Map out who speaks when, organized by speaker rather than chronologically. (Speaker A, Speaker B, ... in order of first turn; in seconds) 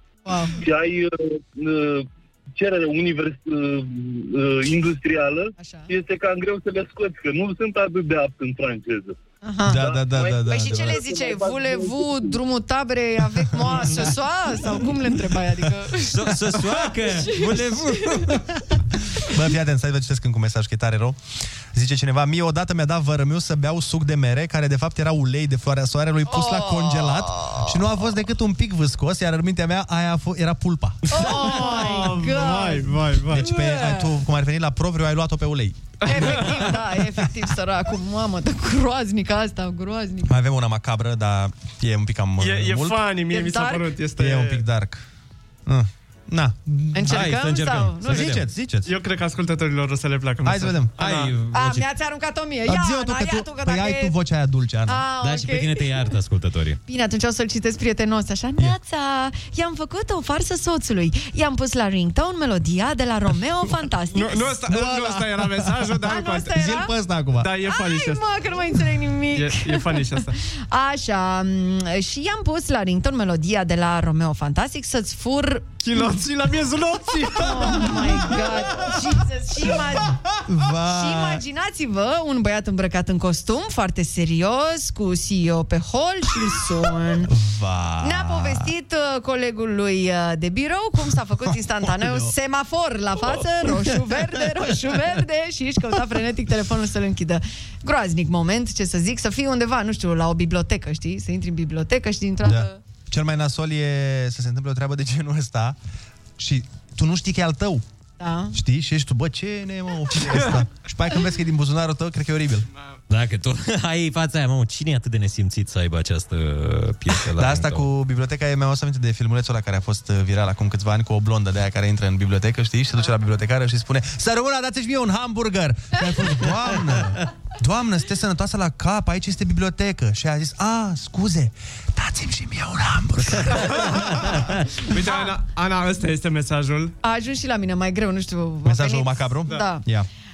Speaker A: 0.3-0.6, 5.6-5.9, 9.4-9.8, 10.4-18.3, 26.3-27.8, 31.1-34.2, 36.0-40.3, 43.3-43.9, 46.9-48.4, 51.5-54.2, 54.9-56.0, 56.9-64.6, 66.0-67.0, 67.7-76.2, 77.3-80.2, 80.8-87.3, 88.0-102.8, 108.2-108.6, 135.0-135.3, 137.0-139.8
Speaker B: 0.6-9.2, 9.7-12.1
Speaker C: 9.7-11.0, 19.3-21.2, 21.7-31.1, 33.3-36.4, 40.3-43.0, 44.2-45.0, 45.7-47.3, 48.0-48.9, 50.5-50.9, 52.6-55.0, 64.7-65.9, 66.5-67.5, 80.5-81.4, 87.3-88.7, 91.8-92.3, 102.4-105.8, 106.4-107.8, 108.5-112.7, 117.2-133.9, 138.7-140.1
Speaker D: 16.0-18.5, 47.1-48.5, 51.0-51.9, 55.2-56.8, 113.1-117.8
Speaker E: 31.1-33.4, 36.0-36.6, 42.4-44.6, 48.9-51.4, 64.1-66.6, 67.4-68.2, 69.3-70.3, 75.8-77.9, 134.9-136.9